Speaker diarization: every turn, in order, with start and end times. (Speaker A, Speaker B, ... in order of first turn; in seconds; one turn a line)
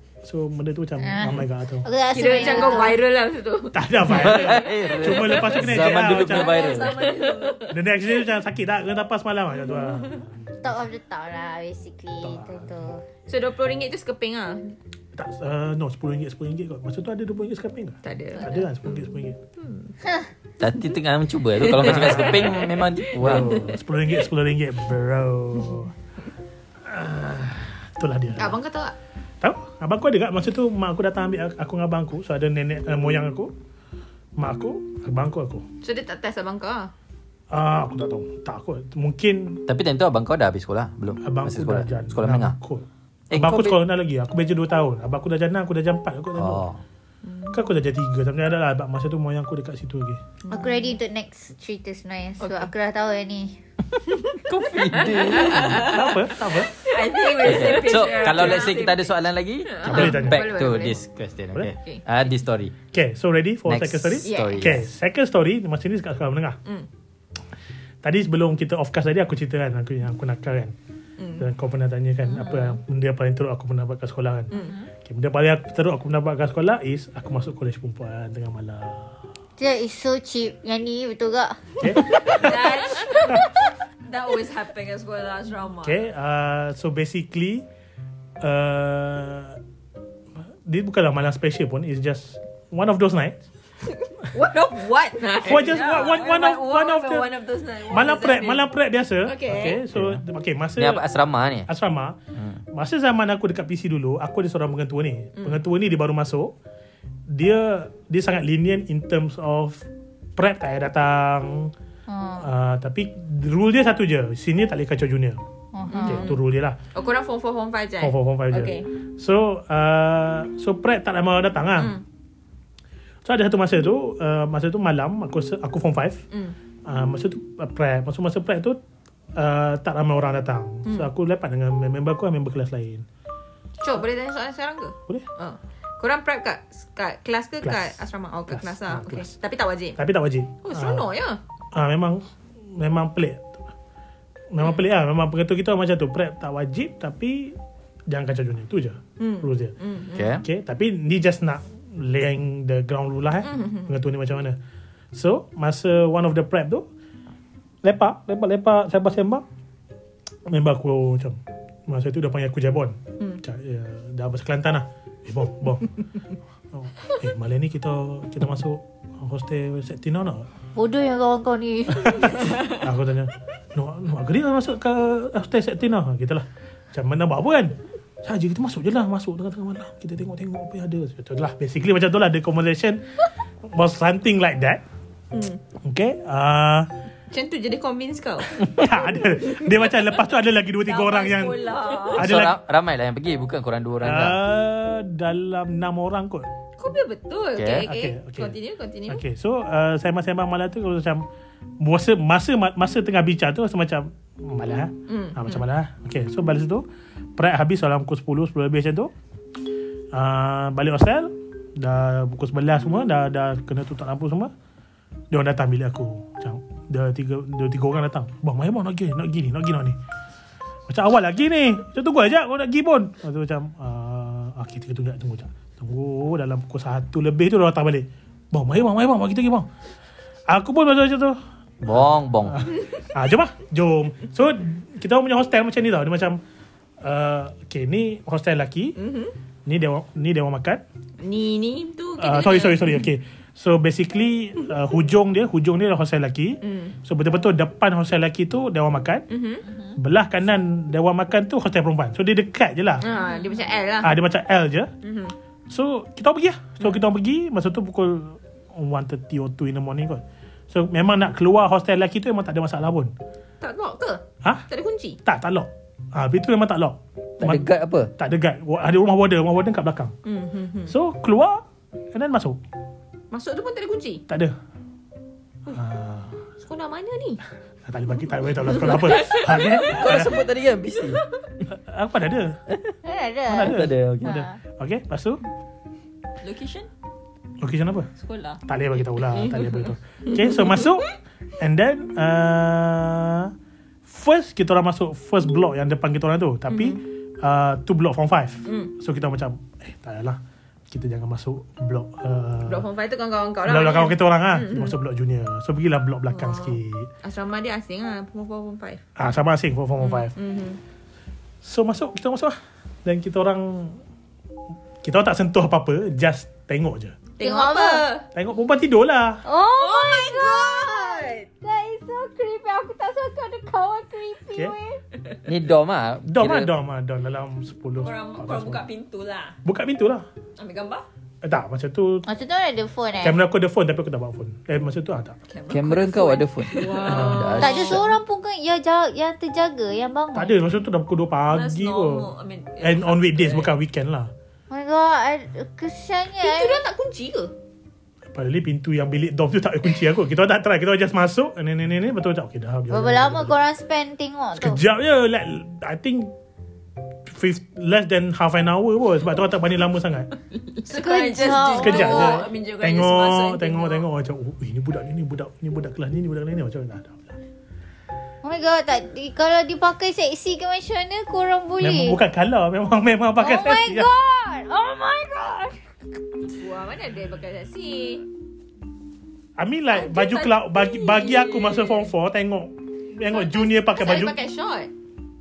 Speaker A: 0.2-1.9
Speaker B: 1.0-3.0
Speaker C: 2.1-4.7
Speaker D: 2.2-2.8
Speaker A: 3.7-6.7
Speaker E: 4.1-7.0
Speaker D: 5.9-7.7
Speaker C: 6.7-7.7
Speaker A: 7.7-10.7
Speaker B: 10.6-13.0
Speaker A: 12.2-12.7
Speaker C: 13.3-14.7
Speaker A: 15.1-19.4
Speaker C: 18.0-19.9
Speaker E: 20.6-23.8
Speaker C: 21.6-22.5
Speaker A: 23.2-25.9
Speaker C: 23.2-23.7
Speaker A: 26.9-28.6
Speaker C: 28.4-28.9
Speaker A: 29.4-33.5
Speaker A: 34.4-35.6
Speaker C: 35.8-36.9
Speaker A: 37.5-39.6
Speaker E: 39.7-42.5
Speaker A: 41.2-46.6
Speaker E: 43.3-43.8
Speaker E: 46.3-46.8
Speaker C: 47.2-47.6
Speaker A: 47.5-50.2
Speaker C: 50.4-50.8
Speaker B: 50.5-53.6
Speaker C: 52.4-52.7
Speaker E: 54.2-56.0
Speaker C: 54.9-55.9
Speaker D: 55.1-56.1
Speaker A: 55.7-56.7
Speaker D: 56.7-59.1
Speaker C: 56.8-59.0
Speaker E: 57.4-62.8
Speaker C: 59.6-61.0
Speaker A: 59.8-60.5
Speaker A: 62.9-66.6
Speaker E: 63.6-64.9
Speaker C: 64.2-64.7
Speaker A: 68.0-70.7
Speaker C: 71.2-71.5
Speaker A: 71.4-74.5
Speaker C: 72.3-72.8
Speaker C: 74.5-74.8
Speaker A: 75.0-79.2
Speaker B: 79.6-82.5
Speaker A: 81.8-82.6
Speaker D: 82.2-83.5
Speaker D: 84.0-86.0
Speaker A: 85.8-87.6
Speaker A: 88.4-89.6
Speaker A: 90.7-93.4
Speaker C: 94.3-95.7
Speaker D: 94.3-98.7
Speaker A: 95.4-97.3
Speaker A: 97.9-101.0
Speaker C: 99.2-99.8
Speaker E: 99.9-100.2
Speaker E: 100.8-101.7
Speaker A: 101.7-102.2
Speaker E: 102.3-102.6
Speaker A: 102.7-106.5
Speaker A: 107.3-109.8
Speaker A: 110.4-111.7
Speaker B: 112.1-112.5
Speaker A: 112.4-115.4
Speaker B: 115.7-116.3
Speaker C: 115.9-116.3
Speaker A: 116.0-116.8
Speaker C: 116.9-118.8
Speaker A: 118.0-122.0
Speaker C: 121.8-122.0
Speaker A: 123.2-126.2
Speaker A: 126.8-128.8
Speaker A: 129.3-133.0
Speaker C: 130.8-131.1
Speaker C: 133.8-140.0
Speaker A: 137.6-137.9
Speaker A: 138.5-139.3
Speaker A: 140.0-141.1
Speaker C: 140.6-141.4
Speaker A: 141.7-143.6
Speaker A: 144.5-147.6
Speaker A: 148.1-149.7
Speaker C: 149.2-150.3
Speaker E: 150.1-150.4
Speaker A: 150.4-154.6
Speaker C: 153.4-153.9
Speaker A: 155.1-156.8
Speaker A: 157.8-159.4
Speaker A: 160.5-165.9
Speaker A: 166.7-170.5
Speaker B: 170.7-172.6
Speaker A: 172.0-183.0
Speaker A: 183.6-184.8
Speaker C: 185.3-185.6
Speaker A: 185.8-186.9
Speaker C: 187.3-188.6
Speaker A: 188.6-192.6
Speaker D: 190.8-192.3
Speaker E: 192.1-194.4
Speaker A: 194.0-196.5
Speaker C: 196.8-199.2
Speaker E: 197.6-197.9
Speaker A: 197.8-198.5
Speaker A: 199.1-201.2
Speaker A: 201.8-206.8
Speaker C: 205.1-205.6
Speaker A: 207.3-209.1
Speaker A: 210.1-214.5
Speaker A: 215.3-219.9
Speaker A: 220.9-229.7
Speaker A: 230.5-236.4
Speaker E: 231.8-232.7
Speaker A: 237.0-238.9
Speaker C: 238.9-239.3
Speaker A: 239.7-240.8
Speaker C: 241.2-243.1
Speaker A: 242.2-249.2
Speaker C: 246.6-246.9
Speaker C: 249.3-249.7
Speaker A: 250.0-253.0
Speaker C: 253.0-254.1
Speaker D: 253.3-253.6
Speaker A: 254.0-254.9
Speaker C: 255.0-255.3
Speaker A: 255.7-263.1
Speaker C: 263.6-265.2
Speaker A: 265.2-270.1
Speaker E: 267.4-268.1
Speaker C: 270.2-270.9
Speaker A: 270.9-272.6
Speaker C: 273.3-274.2
Speaker A: 274.3-274.5
Speaker A: 275.7-276.4
Speaker C: 276.6-277.4
Speaker A: 277.9-280.4
Speaker E: 279.5-281.2
Speaker A: 281.7-282.6
Speaker E: 282.7-282.9
Speaker B: 283.0-284.5
Speaker A: 283.5-285.4
Speaker E: 283.6-284.4
Speaker D: 286.4-286.9
Speaker A: 287.6-288.1
Speaker D: 288.2-288.6
Speaker A: 288.6-293.5
Speaker A: 294.1-300.4
Speaker C: 296.7-297.0
Speaker C: 298.6-298.9
Speaker A: 300.9-302.8
Speaker C: 302.6-304.9
Speaker A: 303.6-307.1
Speaker C: 306.3-309.0
Speaker A: 309.1-310.3
Speaker C: 310.0-310.8
Speaker A: 311.6-314.0
Speaker A: 315.0-317.2
Speaker C: 317.4-318.3
Speaker B: 317.4-318.1
Speaker A: 318.3-319.4
Speaker B: 319.4-325.0
Speaker D: 319.8-321.4
Speaker E: 325.4-326.7
Speaker A: 326.3-328.8
Speaker D: 328.0-329.6
Speaker A: 329.6-330.2
Speaker D: 330.6-331.1
Speaker A: 331.4-332.2
Speaker B: 332.2-333.4
Speaker A: 333.2-335.4
Speaker D: 335.5-337.7
Speaker E: 335.7-338.1
Speaker C: 336.7-337.7
Speaker A: 337.1-337.5
Speaker B: 337.5-340.6
Speaker A: 340.3-342.3
Speaker D: 341.5-343.7
Speaker A: 342.8-344.3
Speaker B: 344.7-346.9
Speaker C: 346.4-347.5
Speaker A: 348.3-353.5
Speaker B: 352.9-354.8
Speaker A: 354.6-356.3
Speaker A: 357.2-360.3
Speaker D: 360.8-364.1
Speaker B: 360.9-362.5
Speaker A: 361.7-367.4
Speaker B: 368.4-372.2
Speaker A: 371.8-374.1
Speaker B: 373.4-375.9
Speaker C: 376.6-378.2
Speaker A: 379.6-384.4
Speaker D: 379.9-382.1
Speaker C: 383.2-384.9